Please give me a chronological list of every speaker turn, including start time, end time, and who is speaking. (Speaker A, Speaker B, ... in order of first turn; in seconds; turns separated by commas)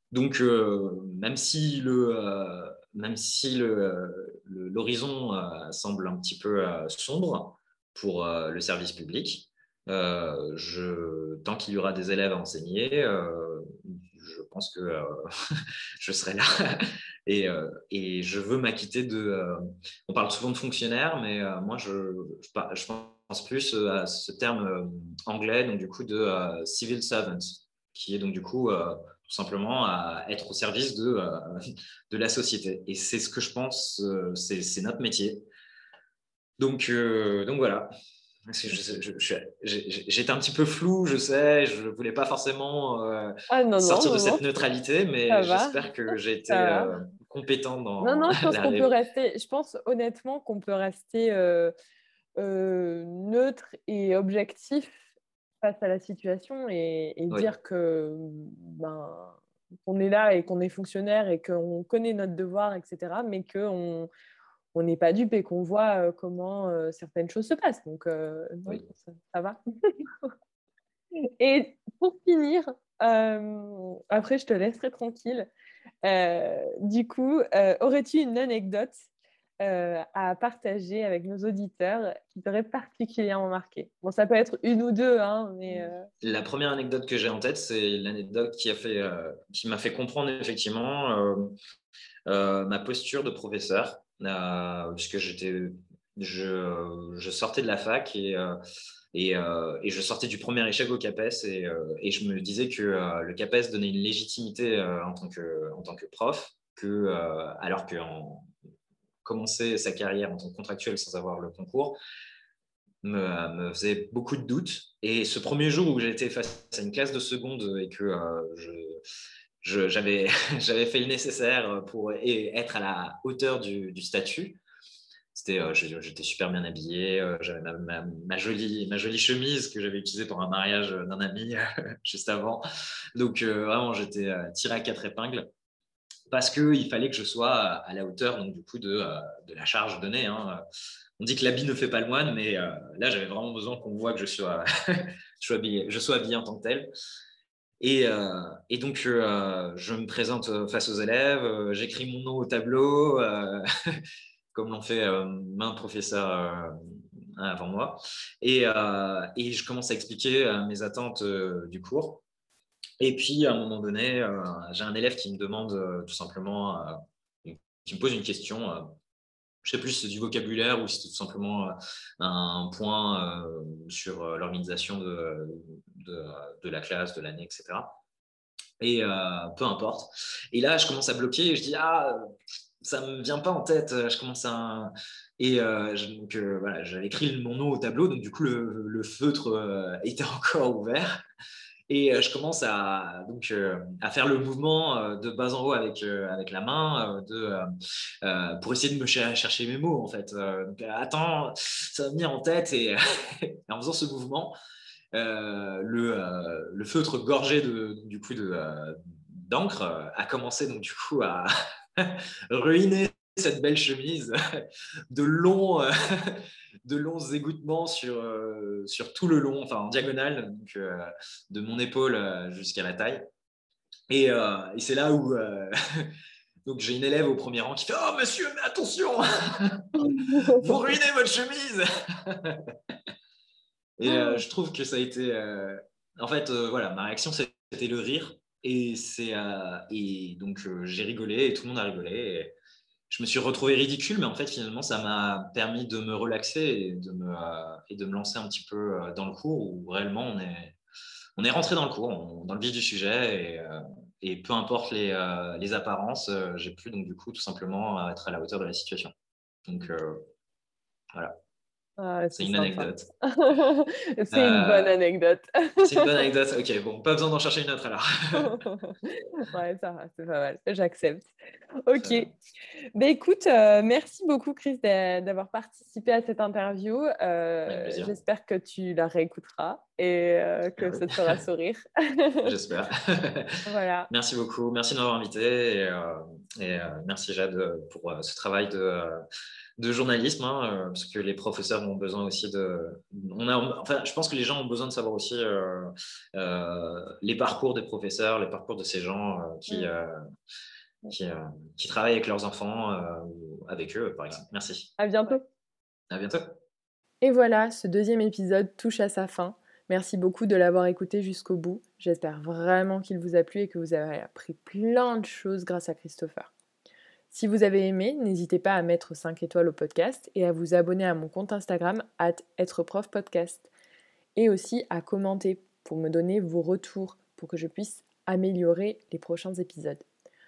Speaker A: 0.1-31.6, Speaker A: 32.1-35.4, Speaker A: 36.6-37.9, Speaker A: 38.5-48.9, Speaker B: 43.5-44.4, Speaker B: 45.3-45.8, Speaker B: 46.5-46.9, Speaker B: 48.0-51.7, Speaker B: 52.4-55.0, Speaker B: 55.6-64.1, Speaker B: 64.7-70.1, Speaker B: 71.3-75.5, Speaker B: 76.0-79.0, Speaker B: 79.6-86.1, Speaker A: 85.7-91.5, Speaker A: 92.3-98.6, Speaker A: 99.1-108.5, Speaker A: 109.2-112.0, Speaker A: 113.0-119.0, Speaker A: 119.6-124.6, Speaker A: 125.3-132.6, Speaker A: 133.1-135.5, Speaker A: 136.3-140.6, Speaker A: 141.2-146.9, Speaker A: 147.8-154.0, Speaker A: 154.5-156.7, Speaker A: 157.4-162.2, Speaker A: 163.0-168.9, Speaker A: 169.6-177.9, Speaker A: 178.8-182.2, Speaker A: 182.8-191.2, Speaker A: 191.9-197.7, Speaker A: 198.2-204.5, Speaker A: 205.1-223.2, Speaker A: 224.1-232.7, Speaker B: 230.1-230.6, Speaker A: 234.0-242.5, Speaker A: 243.1-250.8, Speaker A: 251.4-259.1, Speaker A: 259.6-260.2, Speaker B: 262.0-266.3, Speaker A: 262.3-263.1, Speaker A: 264.3-264.9, Speaker A: 265.8-268.6, Speaker B: 268.3-271.3, Speaker B: 271.8-272.3, Speaker A: 271.9-272.3, Speaker B: 272.9-282.5, Speaker A: 277.6-278.1, Speaker A: 280.8-281.1, Speaker A: 282.4-289.2, Speaker B: 283.6-284.1, Speaker A: 289.8-300.2, Speaker A: 301.1-304.9, Speaker B: 305.0-305.4, Speaker A: 306.1-306.4, Speaker B: 307.2-316.5, Speaker B: 317.3-323.7, Speaker B: 324.4-330.1